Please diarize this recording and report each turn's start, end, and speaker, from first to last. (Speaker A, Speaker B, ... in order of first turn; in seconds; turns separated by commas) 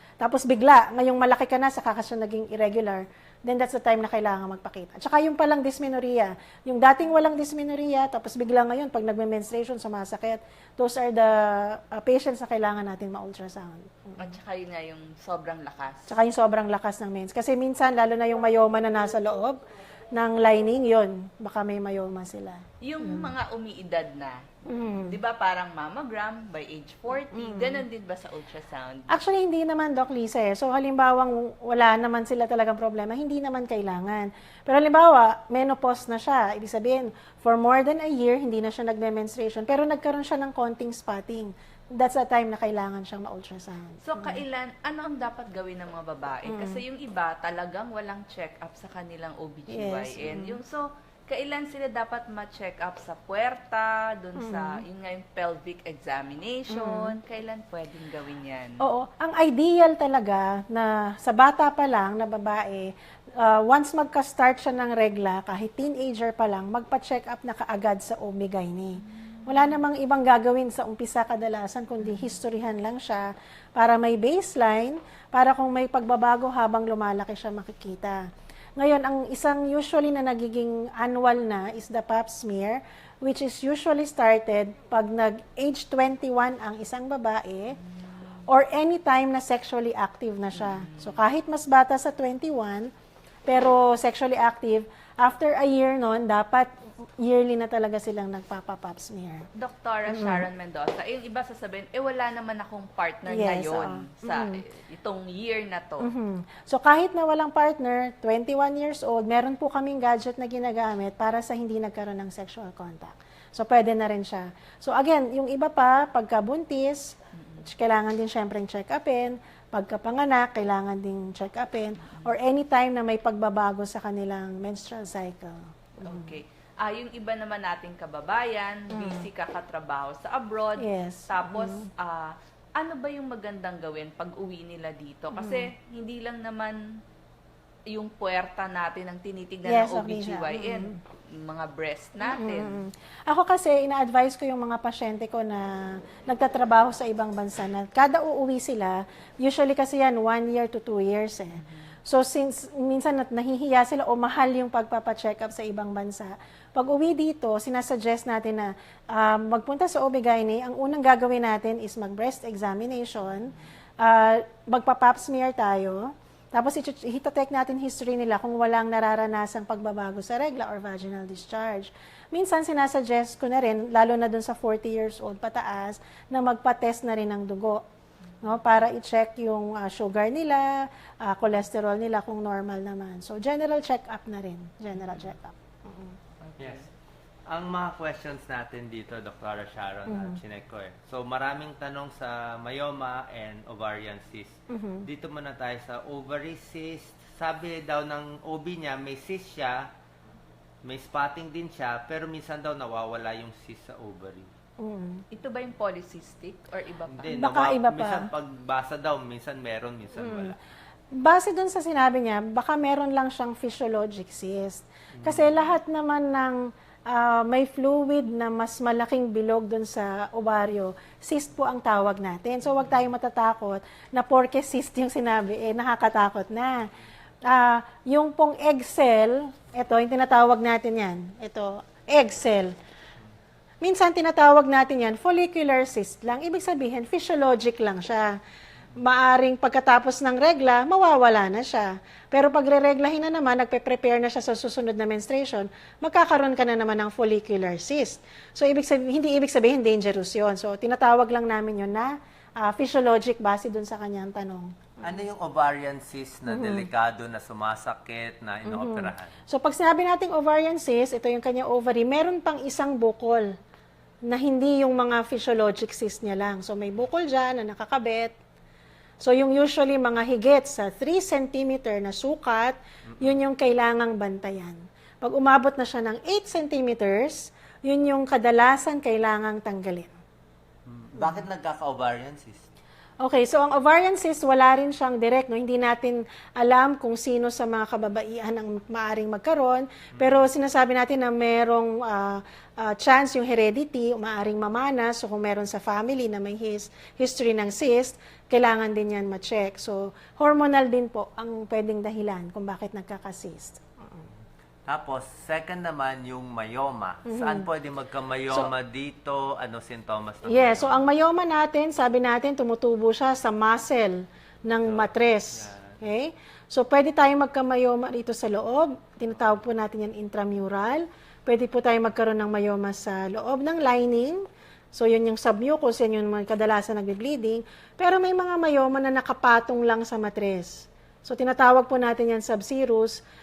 Speaker A: 0.2-14.3, Speaker B: 14.2-16.1, Speaker A: 16.1-23.3, Speaker B: 22.8-29.2, Speaker A: 24.7-25.2, Speaker A: 27.3-27.8, Speaker A: 29.1-44.4, Speaker B: 44.0-58.8, Speaker A: 46.5-46.8, Speaker A: 49.7-50.6, Speaker A: 54.4-54.8, Speaker A: 56.7-57.1, Speaker A: 58.8-78.2, Speaker A: 78.8-87.8, Speaker A: 88.5-92.9, Speaker B: 90.6-91.2, Speaker A: 93.5-99.5, Speaker B: 99.5-106.1, Speaker A: 100.1-100.5, Speaker A: 103.3-104.6, Speaker A: 106.0-126.4, Speaker B: 117.3-117.7, Speaker B: 126.0-136.8, Speaker A: 128.9-129.3, Speaker A: 130.8-131.9, Speaker A: 135.3-135.7, Speaker B: 137.9-142.8, Speaker A: 139.7-141.0, Speaker A: 142.3-177.8, Speaker B: 151.6-151.8, Speaker A: 178.4-186.2, Speaker C: 186.6-186.9, Speaker C: 187.5-199.9, Speaker A: 190.1-190.4, Speaker A: 194.7-195.1, Speaker C: 200.8-204.5, Speaker A: 204.8-205.2, Speaker B: 205.3-207.4, Speaker C: 207.1-210.6, Speaker A: 207.3-208.3, Speaker A: 210.2-210.5, Speaker A: 211.1-226.9, Speaker C: 215.2-215.5, Speaker A: 227.5-232.7, Speaker A: 233.8-238.3, Speaker A: 239.0-255.1, Speaker C: 255.0-259.3, Speaker A: 256.5-256.9, Speaker A: 258.7-263.5, Speaker A: 264.3-268.4, Speaker A: 269.2-280.1, Speaker C: 273.1-273.4, Speaker C: 280.9-282.7, Speaker A: 283.2-304.2, Speaker C: 290.1-290.4, Speaker C: 304.9-311.0, Speaker A: 307.3-307.7, Speaker A: 310.5-324.4, Speaker C: 314.9-316.0, Speaker A: 324.9-333.2